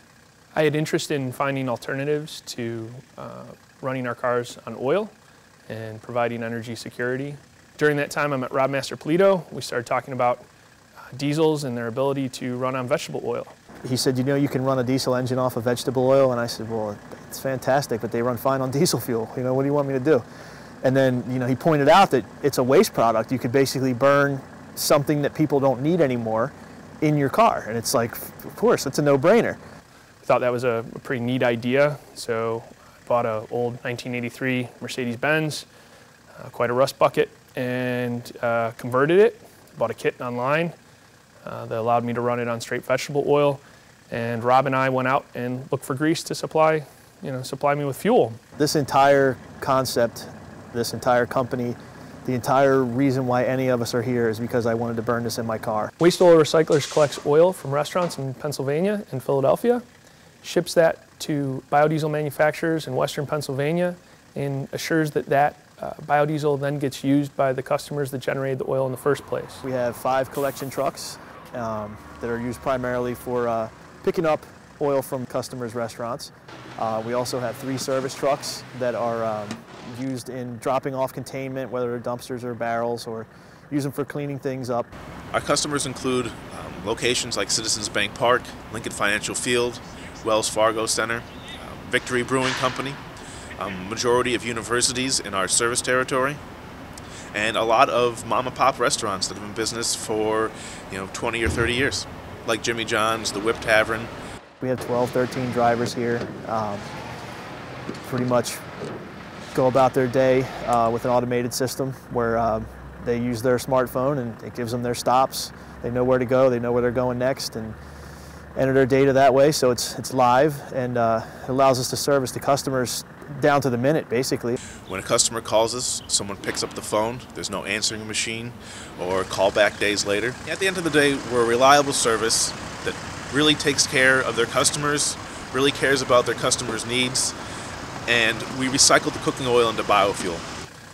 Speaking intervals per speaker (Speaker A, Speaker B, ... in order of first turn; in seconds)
Speaker A: 0.5-5.1, 5.7-10.4, 11.1-13.5, 30.2-35.6, 36.4-40.7, 41.4-48.4, 56.0-59.8, 60.4-69.6
Speaker B: 13.8-20.2, 20.8-29.6, 48.6-55.9, 69.6-84.9, 104.6-106.9, 108.0-108.6, 109.5-117.8, 118.5-124.6
Speaker C: 85.3-93.0, 93.6-96.4, 97.3-104.1, 124.9-137.3, 138.1-140.4